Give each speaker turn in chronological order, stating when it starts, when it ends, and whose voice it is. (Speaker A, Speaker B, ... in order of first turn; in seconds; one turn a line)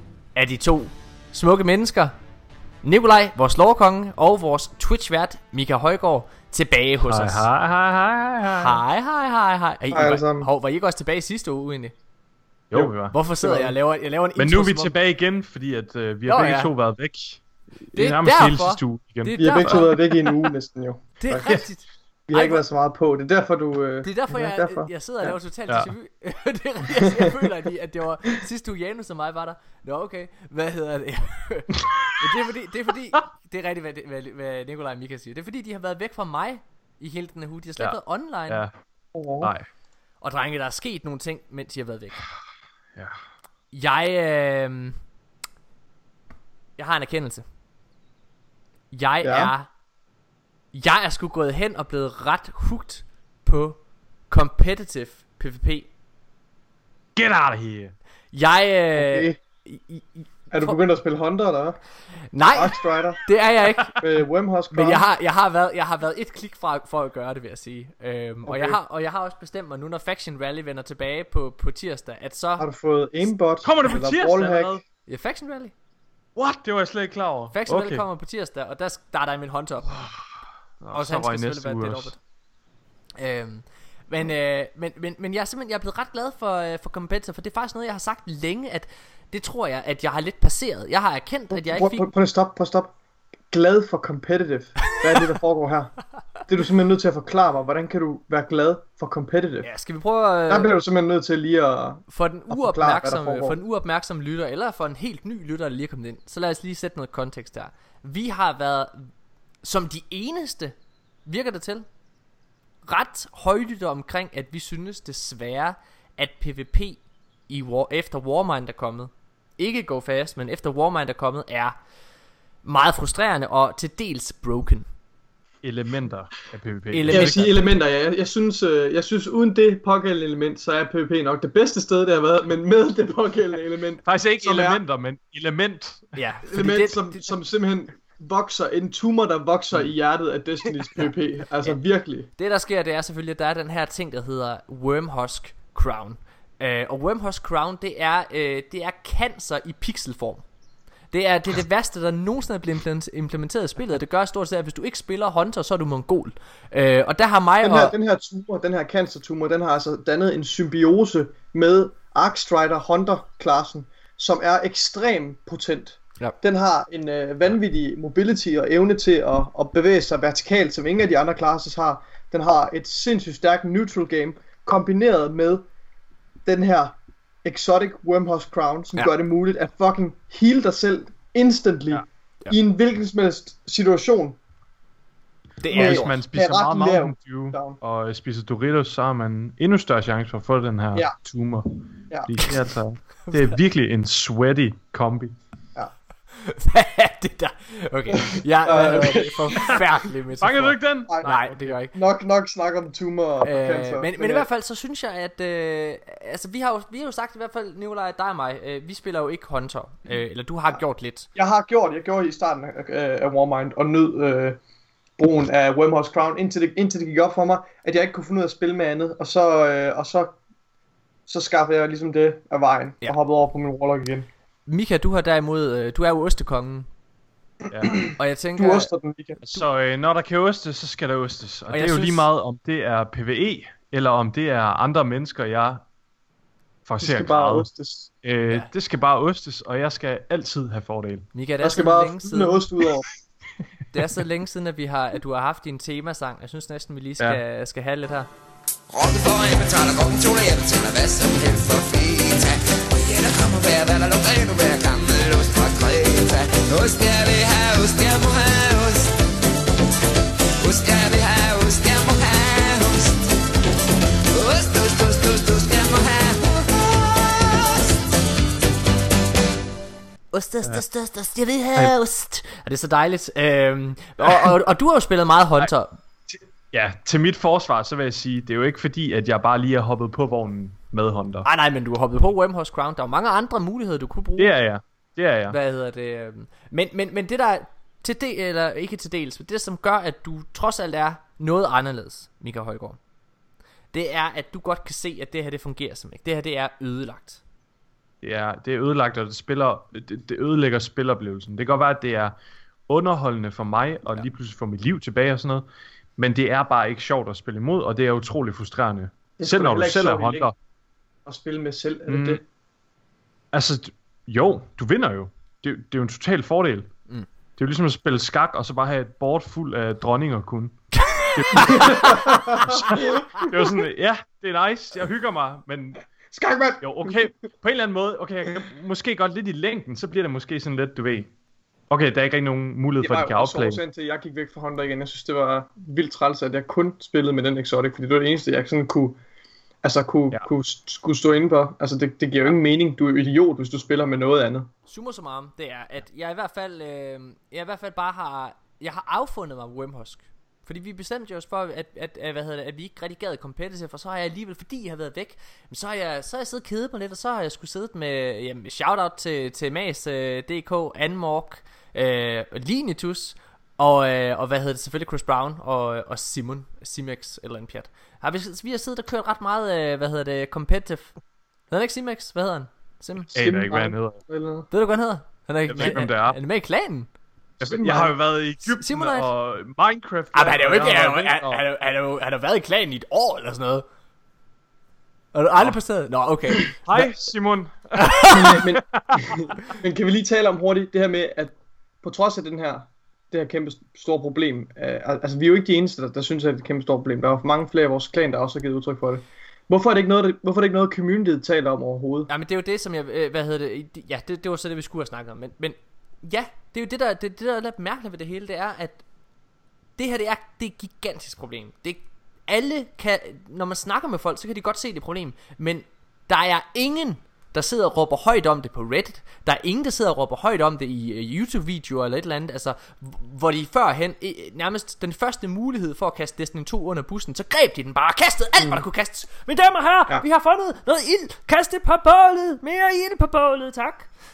Speaker A: 0.3-2.1
Speaker A: 2.8-7.5
Speaker B: 7.0-8.8
Speaker A: 8.5-11.9
Speaker C: 9.9-10.5
Speaker B: 12.7-13.1
Speaker C: 12.7-13.7
Speaker A: 13.1-14.9
Speaker B: 14.4-20.0
Speaker A: 16.3-16.7
Speaker A: 17.9-19.9
Speaker C: 19.4-21.6
Speaker A: 21.2-22.6
Speaker C: 22.3-25.3
Speaker A: 24.0-38.6
Speaker C: 26.9-27.4
Speaker B: 38.5-38.8
Speaker C: 39.1-39.5
Speaker B: 39.4-39.7
Speaker A: 40.2-42.2
Speaker A: 43.7-45.0
Speaker A: 46.8-47.4
Speaker A: 48.9-49.7
Speaker C: 49.2-49.5
Speaker A: 50.7-53.8
Speaker A: 54.3-55.9
Speaker B: 57.1-57.9
Speaker A: 58.3-60.8
Speaker C: 59.0-59.4
Speaker C: 60.5-61.8
Speaker A: 62.3-64.0
Speaker C: 62.5-63.3
Speaker C: 64.0-65.0
Speaker A: 64.7-72.6
Speaker C: 68.5-68.8
Speaker C: 72.6-74.8
Speaker B: 73.6-74.8
Speaker A: 75.1-75.7
Speaker B: 76.3-78.0
Speaker A: 77.5-80.0
Speaker B: 79.9-80.2
Speaker A: 80.8-82.2
Speaker B: 80.9-82.1
Speaker A: 83.2-92.1
Speaker C: 91.5-92.9
Speaker C: 93.5-99.7
Speaker A: 99.6-100.8
Speaker C: 100.5-103.6
Speaker A: 102.1-109.1
Speaker A: 109.6-110.7
Speaker A: 111.2-111.8
Speaker A: 112.9-121.8
Speaker A: 122.6-124.9
Speaker B: 125.6-127.7
Speaker A: 126.9-127.4
Speaker C: 127.1-134.8
Speaker B: 134.1-136.2
Speaker A: 136.2-137.3
Speaker C: 136.5-142.3
Speaker A: 142.4-150.4
Speaker A: 151.1-157.9
Speaker C: 157.6-175.7
Speaker C: 176.4-184.4
Speaker A: 185.6-186.2
Speaker C: 185.7-187.8
Speaker B: 185.7-195.3
Speaker A: 196.3-201.9
Speaker C: 198.3-199.8
Speaker B: 200.4-201.7
Speaker C: 201.1-201.4
Speaker C: 201.9-204.4
Speaker A: 203.4-211.3
Speaker C: 211.3-214.6
Speaker C: 215.2-220.3
Speaker C: 221.3-224.3
Speaker A: 224.7-226.9
Speaker B: 227.7-228.0
Speaker C: 227.8-229.4
Speaker A: 228.2-228.9
Speaker B: 229.4-235.8
Speaker A: 231.7-232.3
Speaker B: 236.8-237.7
Speaker C: 237.0-238.1
Speaker B: 238.2-241.3
Speaker A: 241.3-242.6
Speaker C: 241.6-243.1
Speaker A: 243.9-248.3
Speaker D: 248.9-259.1
Speaker D: 260.6-263.2
Speaker D: 264.3-266.6
Speaker D: 267.4-267.7
Speaker A: 270.3-276.0
Speaker B: 276.3-281.5
Speaker A: 281.4-284.6
Speaker B: 284.4-285.6
Speaker A: 285.5-293.0
Speaker A: 293.9-297.4
Speaker B: 298.2-302.3
Speaker B: 302.9-310.5
Speaker C: 309.4-310.5
Speaker C: 311.2-312.4
Speaker B: 312.1-312.4
Speaker B: 313.5-316.9
Speaker B: 317.6-326.0
Speaker A: 320.9-322.5
Speaker C: 321.6-323.7
Speaker C: 326.3-327.3
Speaker B: 326.8-331.3
Speaker B: 331.9-333.8
Speaker C: 333.0-339.2
Speaker C: 339.8-344.7
Speaker A: 344.9-371.1
Speaker A: 371.7-373.3
Speaker B: 373.3-374.2
Speaker C: 373.3-374.7
Speaker A: 374.7-377.1
Speaker B: 375.6-376.4
Speaker B: 377.6-381.6
Speaker C: 377.6-378.1
Speaker A: 378.8-379.3
Speaker A: 380.3-383.8
Speaker A: 385.3-386.7
Speaker B: 386.8-389.3
Speaker A: 388.0-388.5
Speaker C: 388.3-402.3
Speaker A: 402.3-409.0
Speaker A: 410.0-434.1
Speaker C: 428.6-428.8